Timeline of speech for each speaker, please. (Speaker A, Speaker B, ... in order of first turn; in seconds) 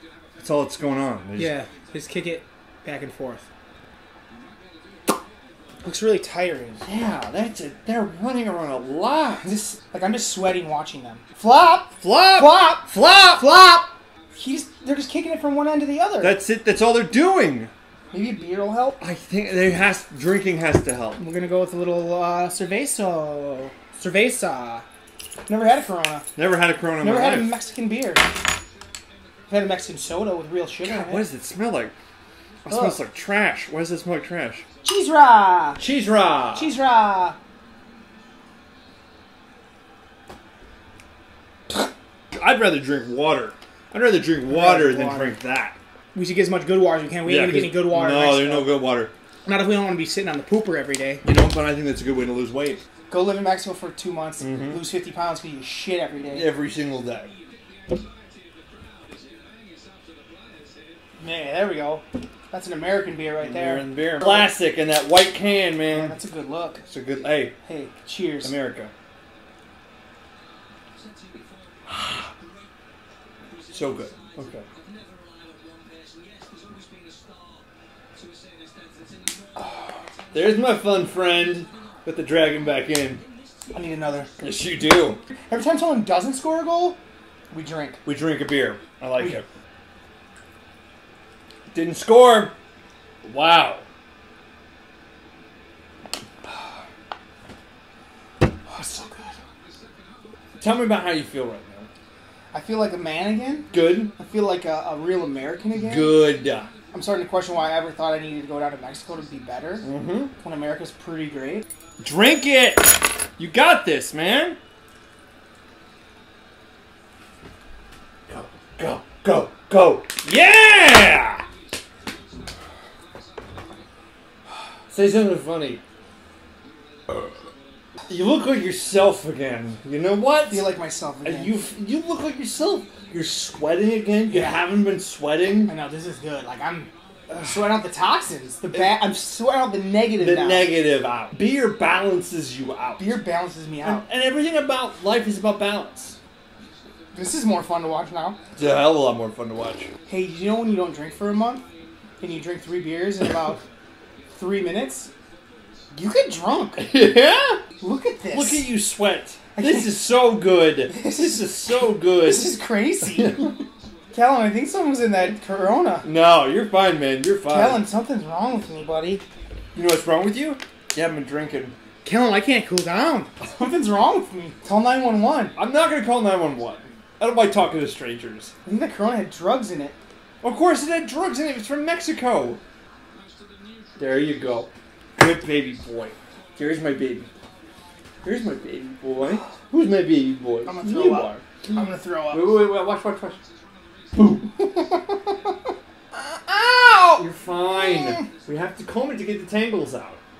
Speaker A: 0.4-1.6, 6.8-9.5, 12.0-13.5, 16.2-17.7, 19.0-21.2, 26.4-27.5, 30.8-31.9, 32.7-34.6, 35.8-36.7, 41.7-45.8, 47.2-49.1, 51.2-52.8, 54.4-54.8, 56.3-57.3, 63.4-66.2, 66.9-67.6, 68.4-68.9, 73.7-74.7, 80.3-83.2, 84.4-85.2, 88.0-89.5, 91.7-92.5, 93.2-93.8, 100.6-101.9, 103.7-104.1, 105.8-106.7, 109.8-110.3, 112.0-114.6, 118.3-121.5, 124.9-125.8, 128.1-130.7, 131.2-135.7, 140.2-143.2, 143.8-146.2, 148.6-149.9, 156.8-157.6, 158.3-162.6, 163.1-163.6, 166.0-167.8, 169.8-171.8, 175.6-178.5, 180.4-182.6, 184.0-187.3, 188.2-191.4, 192.3-193.4, 194.2-194.5, 197.2-200.2
Speaker B: 1.4-3.5, 5.8-6.8, 9.4-16.4, 18.1-19.0, 21.2-24.8, 25.5-26.3, 27.0-28.3, 29.5-31.2, 32.7-33.0, 34.8-35.8, 36.5-37.4, 44.5-45.4, 46.1-48.8, 49.5-51.2, 53.1-56.5, 61.2-64.5, 65.9-66.8, 67.6-68.5, 83.7-84.3, 85.5-87.0, 87.5-88.0, 98.7-99.3, 102.5-106.2, 106.9-109.9, 110.4-111.7, 130.5-131.6, 134.3-134.7, 135.7-140.7, 143.0-144.1, 147.1-148.4, 150.1-151.7, 152.2-153.6, 154.3-155.1, 155.9-156.9, 157.8-158.7, 159.6-160.0, 160.9-163.5, 164.1-166.1, 167.5-169.2, 172.0-175.6, 178.7-180.0, 190.7-192.7, 194.6-195.0, 196.1-197.2, 197.8-198.2